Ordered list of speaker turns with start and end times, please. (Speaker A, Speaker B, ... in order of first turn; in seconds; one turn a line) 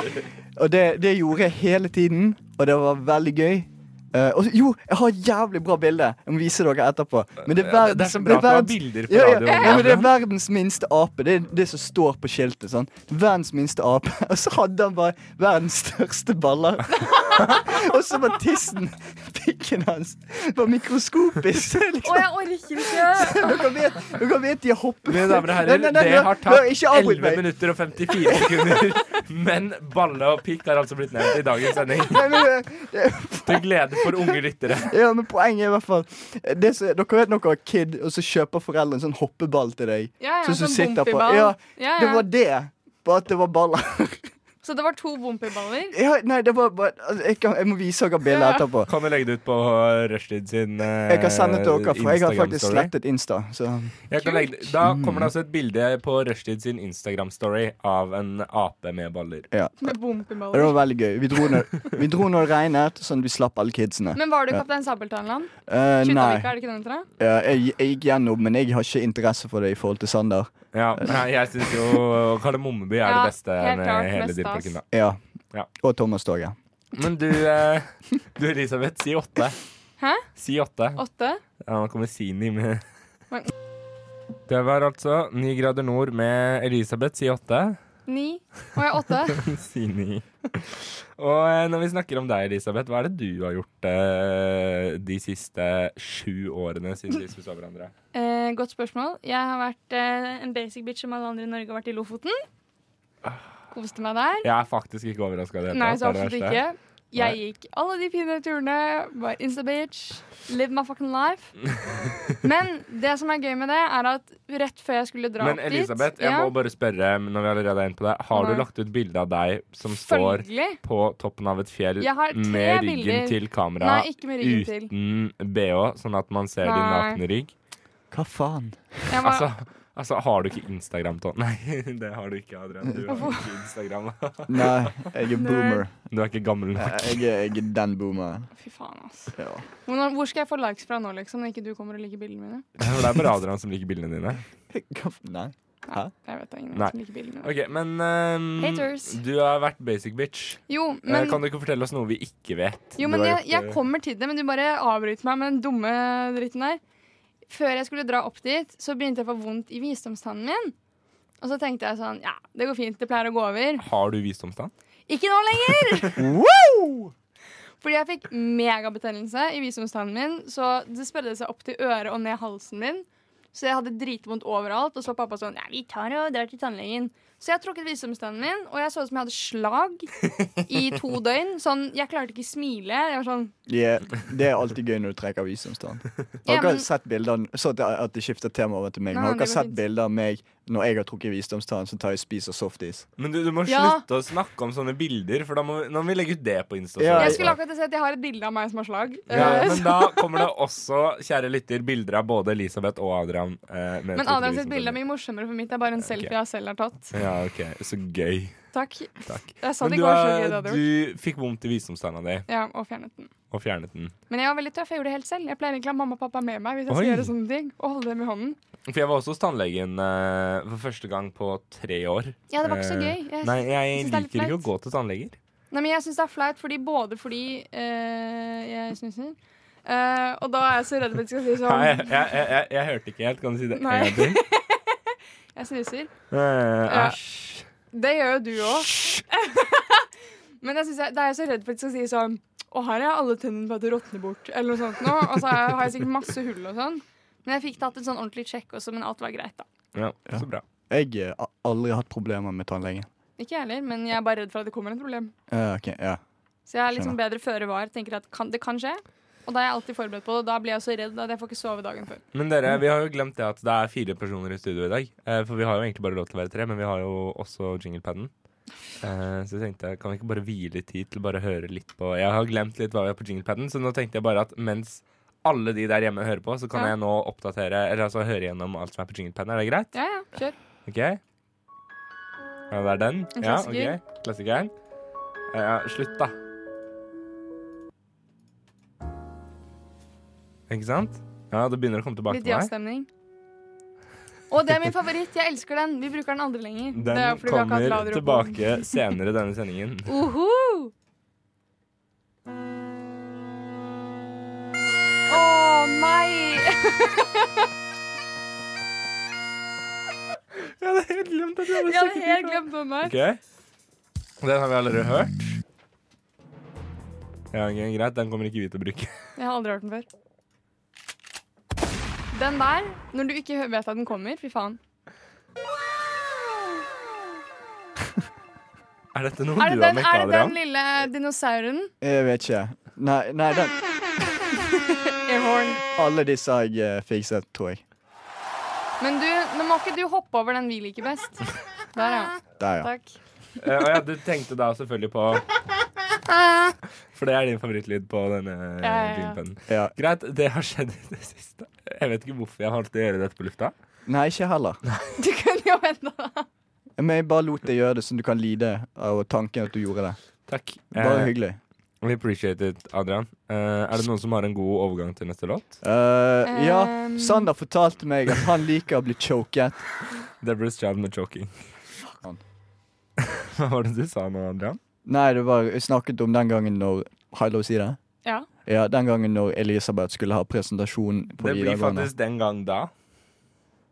Speaker A: 0.6-27.4
Speaker B: 7.5-10.1
Speaker C: 17.1-17.6
Speaker C: 22.0-23.6
Speaker B: 25.1-32.4
Speaker A: 28.1-28.9
Speaker A: 32.1-44.3
Speaker B: 33.5-34.9
Speaker C: 40.2-42.2
Speaker C: 44.6-46.0
Speaker A: 45.9-48.9
Speaker C: 48.3-48.6
Speaker B: 48.9-52.9
Speaker A: 51.1-54.0
Speaker B: 54.1-59.5
Speaker C: 54.2-54.5
Speaker A: 54.8-55.3
Speaker A: 59.5-59.9
Speaker C: 59.8-60.8
Speaker A: 60.5-64.6
Speaker C: 64.2-67.1
Speaker A: 65.7-66.5
Speaker A: 67.2-71.1
Speaker B: 70.7-74.9
Speaker C: 73.0-74.8
Speaker A: 74.9-75.2
Speaker A: 75.8-76.6
Speaker B: 76.9-79.6
Speaker C: 80.0-80.2
Speaker B: 80.4-81.0
Speaker C: 81.0-81.4
Speaker B: 81.7-82.8
Speaker B: 84.5-87.8
Speaker C: 88.1-89.4
Speaker B: 89.3-97.9
Speaker C: 98.1-102.4
Speaker C: 103.7-104.5
Speaker B: 104.4-106.6
Speaker C: 105.7-111.5
Speaker C: 112.4-116.5
Speaker B: 115.4-127.5
Speaker C: 118.3-118.7
Speaker C: 120.0-120.8
Speaker C: 122.0-124.9
Speaker C: 126.6-127.2
Speaker A: 128.1-129.1
Speaker C: 129.1-129.5
Speaker B: 129.2-134.9
Speaker C: 133.1-133.5
Speaker A: 134.5-135.9
Speaker C: 135.4-135.8
Speaker B: 136.1-137.2
Speaker A: 136.8-138.5
Speaker C: 138.6-139.3
Speaker A: 139.4-139.7
Speaker C: 139.9-142.7
Speaker B: 142.8-144.4
Speaker A: 144.7-146.1
Speaker C: 145.9-147.5
Speaker B: 146.7-153.8
Speaker C: 148.6-149.2
Speaker C: 150.7-151.4
Speaker C: 153.0-156.8
Speaker C: 157.5-160.7
Speaker C: 161.4-163.8
Speaker B: 163.8-164.7
Speaker C: 165.1-166.2
Speaker A: 166.2-167.1
Speaker C: 167.8-180.1
Speaker C: 180.7-183.5
Speaker A: 183.7-193.1
Speaker C: 186.5-186.9
Speaker C: 189.1-189.8
Speaker B: 193.2-197.6
Speaker C: 193.7-194.0
Speaker A: 197.0-197.6
Speaker C: 197.2-200.4
Speaker B: 199.3-205.0
Speaker A: 199.3-199.8
Speaker C: 204.2-207.1
Speaker B: 207.1-208.7
Speaker C: 208.7-210.8
Speaker B: 209.2-212.5
Speaker C: 212.5-213.3
Speaker B: 213.5-214.2
Speaker C: 214.3-218.6
Speaker B: 216.9-217.3
Speaker B: 218.9-225.4
Speaker C: 222.5-224.7
Speaker C: 225.7-232.1
Speaker B: 231.6-234.4
Speaker C: 233.7-236.1
Speaker B: 236.3-237.7
Speaker C: 236.9-237.2
Speaker C: 237.9-240.1
Speaker B: 238.8-239.2
Speaker C: 240.6-249.7
Speaker B: 249.9-250.6
Speaker A: 250.3-253.1
Speaker C: 253.4-255.3
Speaker A: 255.5-256.2
Speaker C: 256.7-262.2
Speaker B: 262.3-268.3
Speaker B: 269.0-279.9
Speaker C: 279.9-280.6
Speaker B: 280.9-281.2
Speaker B: 282.7-284.7
Speaker C: 283.4-284.0
Speaker B: 285.5-286.3
Speaker B: 290.7-292.7
Speaker C: 292.3-293.1
Speaker C: 294.5-298.9
Speaker B: 296.9-300.1
Speaker C: 300.1-300.9
Speaker C: 305.3-307.6
Speaker B: 310.6-313.4
Speaker C: 311.8-313.1
Speaker B: 314.4-315.6
Speaker B: 317.5-319.1
Speaker C: 319.4-320.1
Speaker C: 322.3-324.8
Speaker B: 329.1-330.6
Speaker C: 329.6-331.9
Speaker A: 332.0-333.8
Speaker C: 335.3-335.8
Speaker A: 336.0-337.8
Speaker C: 339.0-343.2
Speaker A: 342.6-342.9
Speaker B: 343.6-345.4
Speaker B: 347.1-353.7
Speaker C: 348.8-349.4
Speaker A: 354.1-354.8
Speaker C: 355.2-356.5
Speaker A: 357.0-360.2
Speaker B: 360.5-361.3
Speaker A: 360.9-361.6
Speaker B: 362.0-365.8
Speaker A: 365.8-369.8
Speaker C: 366.4-367.5
Speaker B: 370.4-371.5
Speaker B: 373.3-374.8
Speaker A: 375.1-378.0
Speaker A: 378.7-382.1
Speaker B: 381.4-382.9